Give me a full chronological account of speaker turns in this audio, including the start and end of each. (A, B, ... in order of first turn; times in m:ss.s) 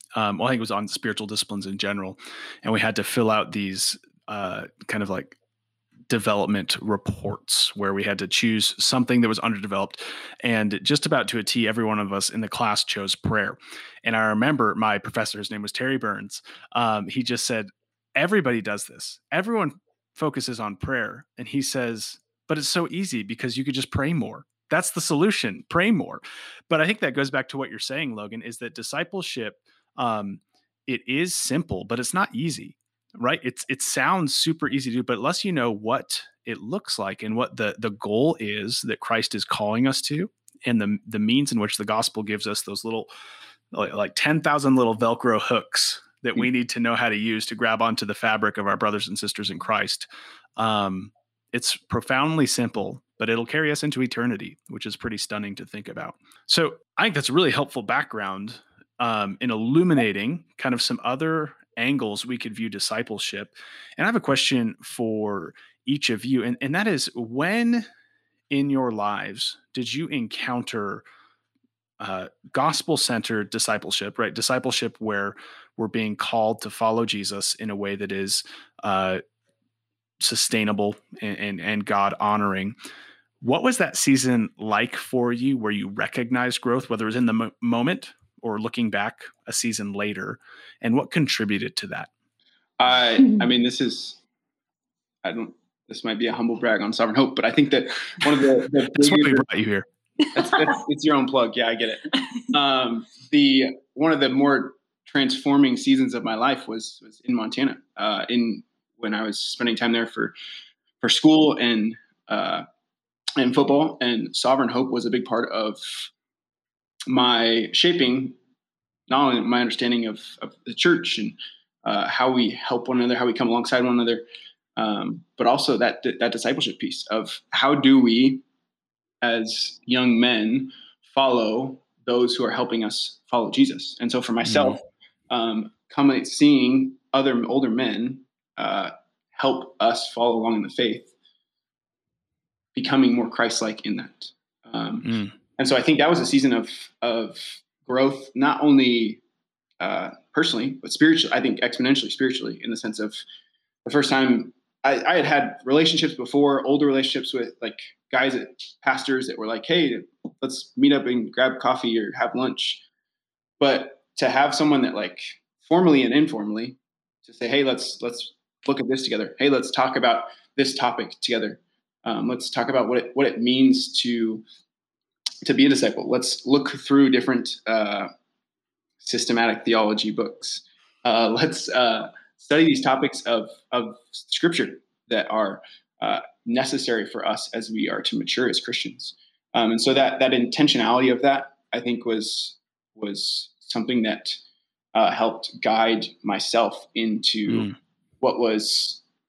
0:00.2-0:05.4 A
0:06.1-0:43.1 A
0:43.7-1:07.8 A
1:08.5-1:11.0 A
1:12.0-1:19.2 A
1:20.2-1:22.8 A
1:23.4-1:32.1 A
1:32.8-1:34.2 B
1:35.2-1:39.5 B
1:38.9-1:39.9 A
1:40.3-1:50.4 B
1:51.0-1:52.6 B
1:53.4-1:56.1 B
1:57.1-1:58.4 B
1:59.1-2:04.2 B
2:04.8-2:08.4 B
2:09.2-2:21.1 B
2:14.5-2:14.8 A
2:22.8-2:29.2 B
2:25.0-2:25.3 A
2:29.8-2:33.2 B
2:33.8-2:42.8 B
2:43.6-2:54.4 B
2:55.4-2:58.1 B
2:59.0-3:14.4 B
3:14.9-3:17.7 B
3:17.5-3:17.8 A
3:18.2-3:19.0 B